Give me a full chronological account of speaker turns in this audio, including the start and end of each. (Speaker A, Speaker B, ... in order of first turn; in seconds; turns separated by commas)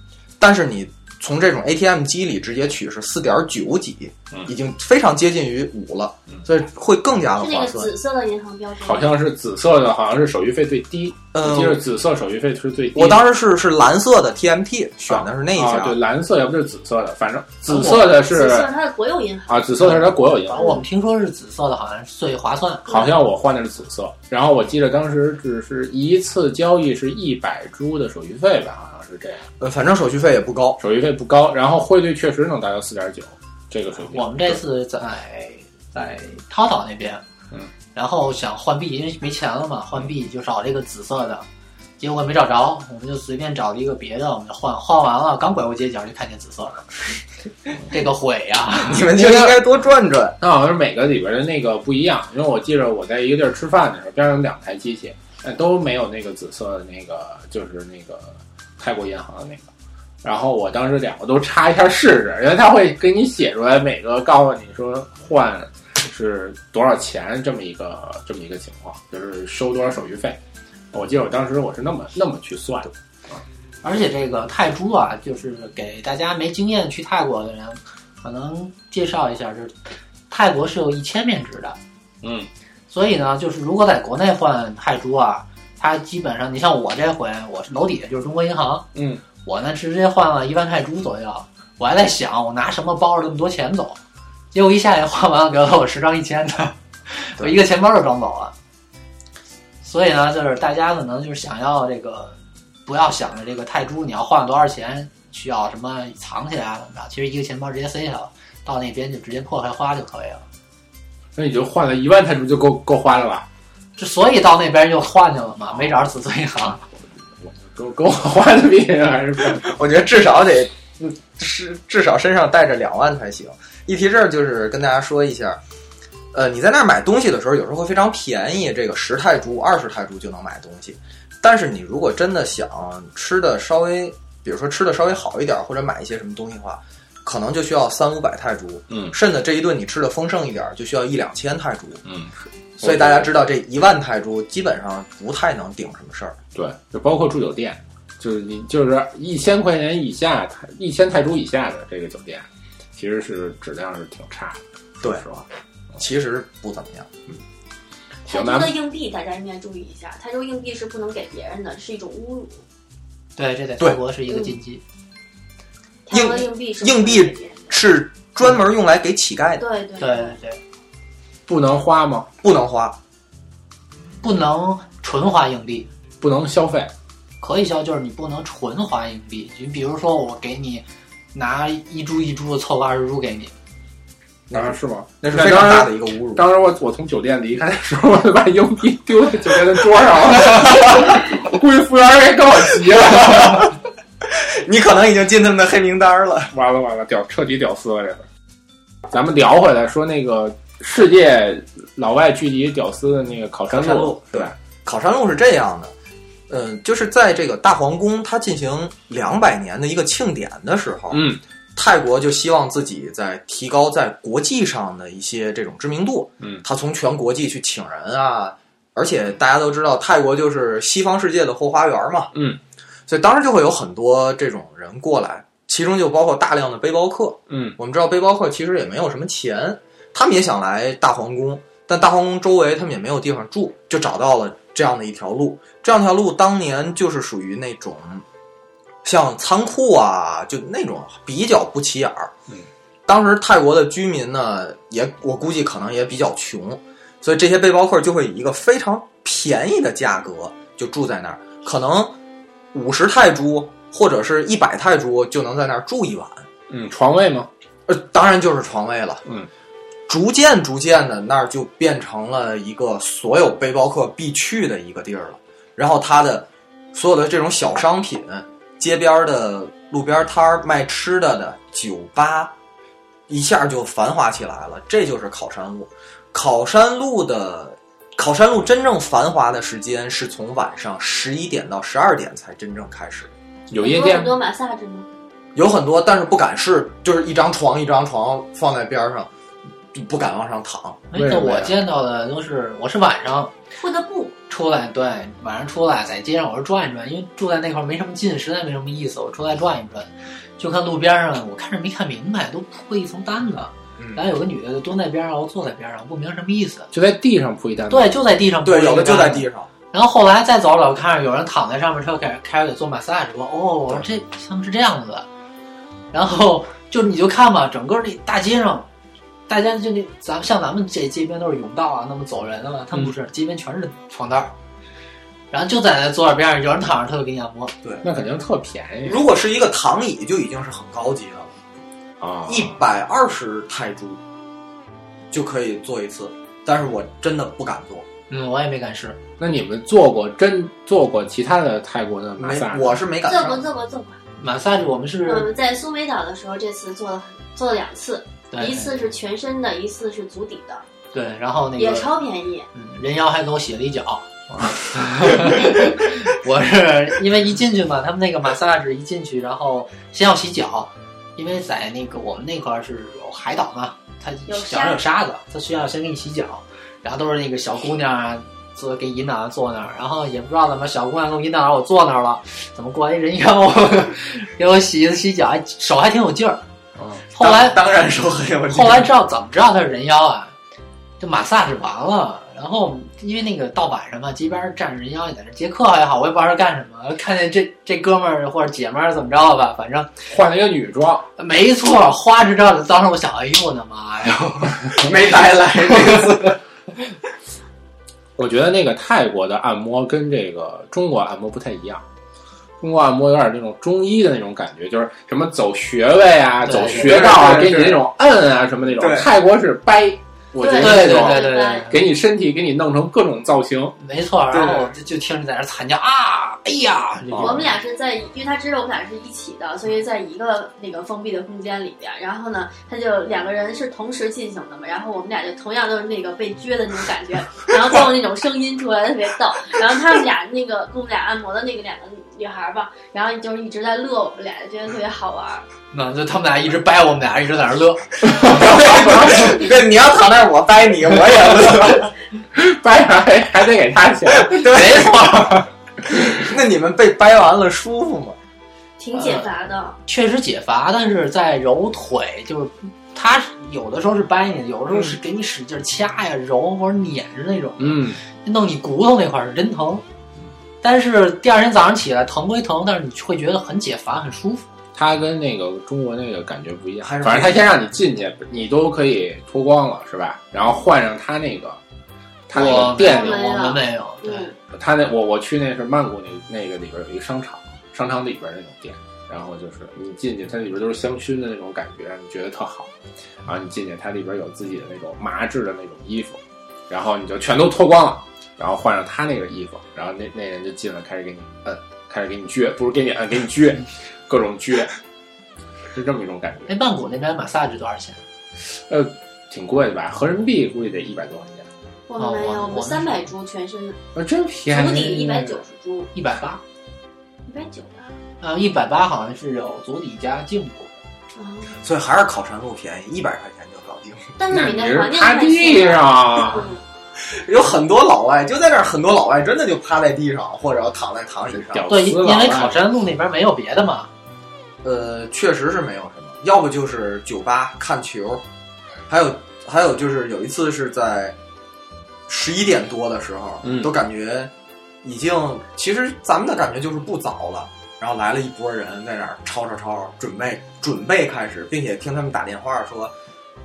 Speaker A: 0.4-7.9, Speaker B: 7.4-9.1, Speaker C: 8.8-13.2, Speaker A: 11.3-11.8, Speaker A: 12.9-16.0, Speaker C: 15.1-18.7, Speaker B: 17.8-20.0, Speaker C: 19.5-20.8, Speaker D: 19.8-22.9, Speaker B: 20.5-20.8, Speaker B: 22.9-23.2, Speaker C: 22.9-29.4, Speaker A: 29.6-30.8, Speaker C: 30.8-34.6, Speaker D: 34.1-37.2, Speaker D: 37.9-41.5, Speaker D: 42.0-47.1, Speaker D: 47.9-49.1, Speaker A: 48.8-50.4, Speaker C: 49.1-49.6, Speaker C: 50.4-59.7, Speaker C: 60.2-70.4, Speaker C: 70.9-73.4, Speaker D: 73.8-79.8, Speaker D: 80.3-81.8, Speaker C: 82.2-82.5, Speaker D: 82.9-88.9, Speaker C: 89.0-89.2, Speaker D: 89.4-94.0, Speaker D: 94.5-98.5, Speaker D: 99.8-110.4, Speaker C: 111.4-113.5, Speaker D: 114.0-116.8, Speaker C: 117.4-119.7, Speaker A: 119.6-125.6, Speaker A: 126.3-142.0, Speaker C: 138.9-139.2, Speaker C: 142.1-143.3, Speaker A: 142.8-146.4, Speaker C: 146.6-155.5, Speaker A: 156.0-157.1, Speaker B: 158.3-162.6, Speaker C: 158.3-158.7, Speaker D: 163.4-164.8, Speaker B: 164.3-164.5, Speaker B: 166.1-167.8, Speaker A: 166.1-169.6, Speaker B: 169.6-170.4, Speaker D: 170.0-170.6, Speaker C: 171.5-172.3, Speaker A: 172.4-173.0, Speaker D: 174.2-175.9, Speaker C: 176.2-176.9, Speaker D: 177.4-183.5, Speaker A: 184.5-186.5, Speaker C: 184.5-193.8, Speaker A: 190.3-191.2, Speaker A: 192.9-193.7, Speaker A: 194.2-196.5, Speaker C: 196.5-198.3, Speaker C: 199.1-204.5, Speaker A: 203.7-205.9, Speaker A: 206.5-222.3, Speaker C: 211.1-211.4, Speaker C: 216.4-216.6, Speaker C: 222.3-222.6, Speaker A: 223.1-238.2, Speaker C: 227.5-227.8, Speaker A: 239.0-242.3, Speaker A: 243.1-252.2, Speaker A: 252.7-256.5, Speaker C: 256.7-257.5, Speaker A: 257.9-259.2, Speaker A: 260.1-272.6, Speaker A: 273.3-283.3, Speaker C: 283.7-284.4, Speaker B: 283.7-285.1, Speaker A: 285.6-289.3, Speaker A: 289.9-291.1, Speaker D: 291.1-293.5, Speaker C: 291.1-291.7, Speaker B: 293.8-294.4, Speaker D: 294.5-306.9, Speaker A: 304.0-304.2, Speaker C: 306.9-308.1, Speaker D: 307.9-315.3, Speaker A: 308.6-309.7, Speaker D: 316.1-318.9, Speaker D: 319.5-324.5, Speaker D: 325.5-327.7, Speaker C: 328.0-329.2, Speaker A: 329.0-331.6, Speaker C: 332.2-332.8, Speaker A: 332.5-334.2, Speaker A: 335.3-338.1, Speaker D: 338.3-339.2, Speaker C: 339.4-343.0, Speaker A: 342.4-343.6, Speaker B: 343.2-344.2, Speaker D: 344.4-345.5, Speaker B: 345.2-350.9, Speaker D: 348.5-348.9, Speaker D: 351.1-352.1, Speaker B: 351.8-352.7, Speaker D: 352.7-376.6, Speaker B: 364.5-365.0, Speaker C: 377.0-377.2, Speaker D: 377.3-377.8, Speaker A: 377.3-379.1, Speaker D: 378.7-380.5, Speaker D: 381.2-390.1, Speaker C: 390.3-391.3, Speaker D: 391.4-396.3, Speaker A: 395.0-396.6, Speaker C: 398.4-402.0, Speaker C: 402.8-414.0, Speaker D: 406.6-407.8, Speaker A: 406.8-408.1, Speaker A: 408.9-409.3, Speaker B: 410.6-411.9, Speaker D: 410.8-412.0, Speaker D: 414.0-417.7, Speaker A: 414.5-414.9, Speaker C: 417.3-417.7, Speaker B: 417.3-435.6, Speaker D: 435.9-438.5, Speaker C: 438.2-439.5, Speaker A: 438.3-442.1, Speaker C: 442.5-444.6, Speaker A: 444.4-445.4, Speaker D: 444.5-445.7, Speaker A: 446.2-448.4, Speaker B: 449.0-450.0, Speaker D: 449.1-449.5, Speaker D: 450.1-460.0, Speaker C: 457.8-458.2, Speaker D: 460.8-464.7, Speaker C: 464.9-471.8, Speaker A: 467.0-467.8, Speaker C: 472.5-473.4, Speaker D: 472.5-474.5, Speaker B: 472.5-474.6, Speaker C: 474.7-482.9, Speaker C: 483.4-495.0, Speaker C: 495.9-496.7, Speaker D: 496.7-498.2, Speaker C: 498.6-501.7, Speaker B: 502.1-504.0, Speaker D: 502.2-503.3, Speaker C: 504.1-505.6, Speaker B: 504.7-506.1, Speaker D: 506.1-506.6, Speaker B: 507.5-508.1, Speaker D: 508.4-510.9, Speaker B: 511.4-511.8, Speaker A: 511.8-514.3, Speaker B: 514.4-516.8, Speaker C: 514.5-516.7, Speaker A: 517.2-521.9, Speaker C: 521.5-522.8, Speaker D: 521.9-524.1, Speaker A: 524.8-528.4, Speaker A: 529.1-531.4, Speaker A: 532.3-534.5, Speaker C: 533.6-533.9, Speaker A: 535.0-543.1